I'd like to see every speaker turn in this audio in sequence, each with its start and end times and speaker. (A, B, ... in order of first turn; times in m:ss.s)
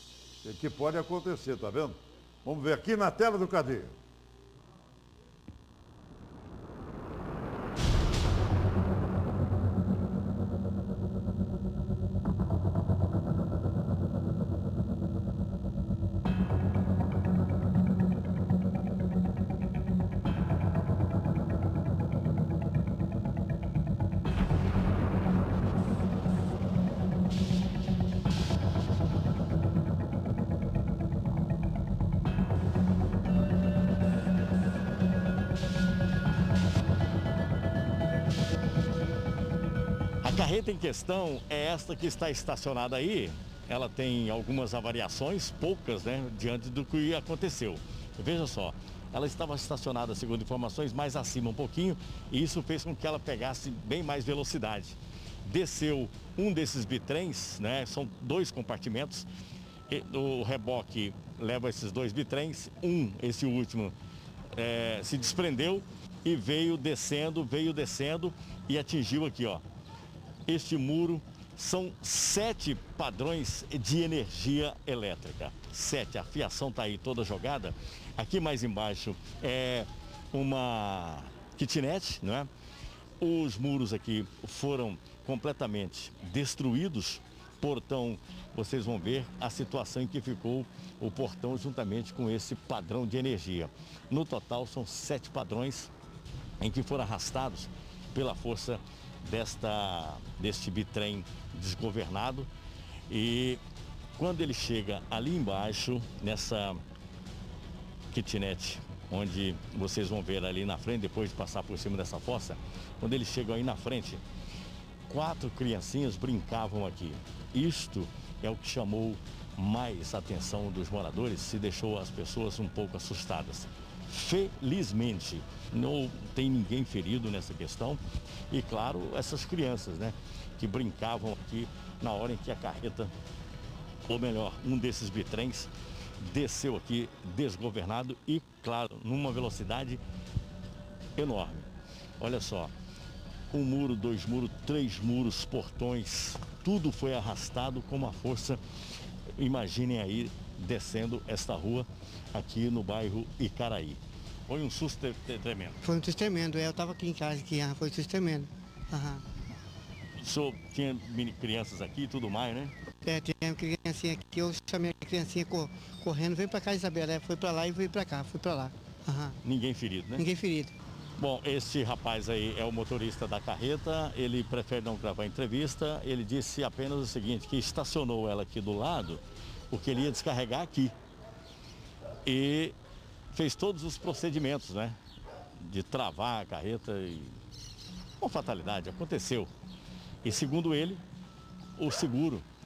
0:00.4-0:04.0 A
0:40.2-0:59.3 B
0:59.9-1:03.9 B
1:04.5-1:09.6 B
1:10.4-1:22.5 B
1:23.2-1:35.9 B
1:36.6-1:42.5 B
1:43.1-1:43.6 B
1:44.2-1:46.8 B
1:48.1-1:54.2 B
1:55.1-2:13.1 B
2:14.0-2:20.0 B
2:21.2-2:22.7 B
2:23.5-2:28.6 B
2:29.4-2:35.8 B
2:35.8-2:39.2 C
2:40.2-2:42.7 B
2:43.0-2:49.4 C
2:49.4-2:50.3 B
2:50.2-2:50.7 C
2:51.2-3:00.9 B
3:02.2-3:02.7 B
3:03.3-3:05.0 B
3:05.5-3:07.4 B
3:08.2-3:09.5 B
3:10.2-3:11.0 B
3:11.8-3:12.4 B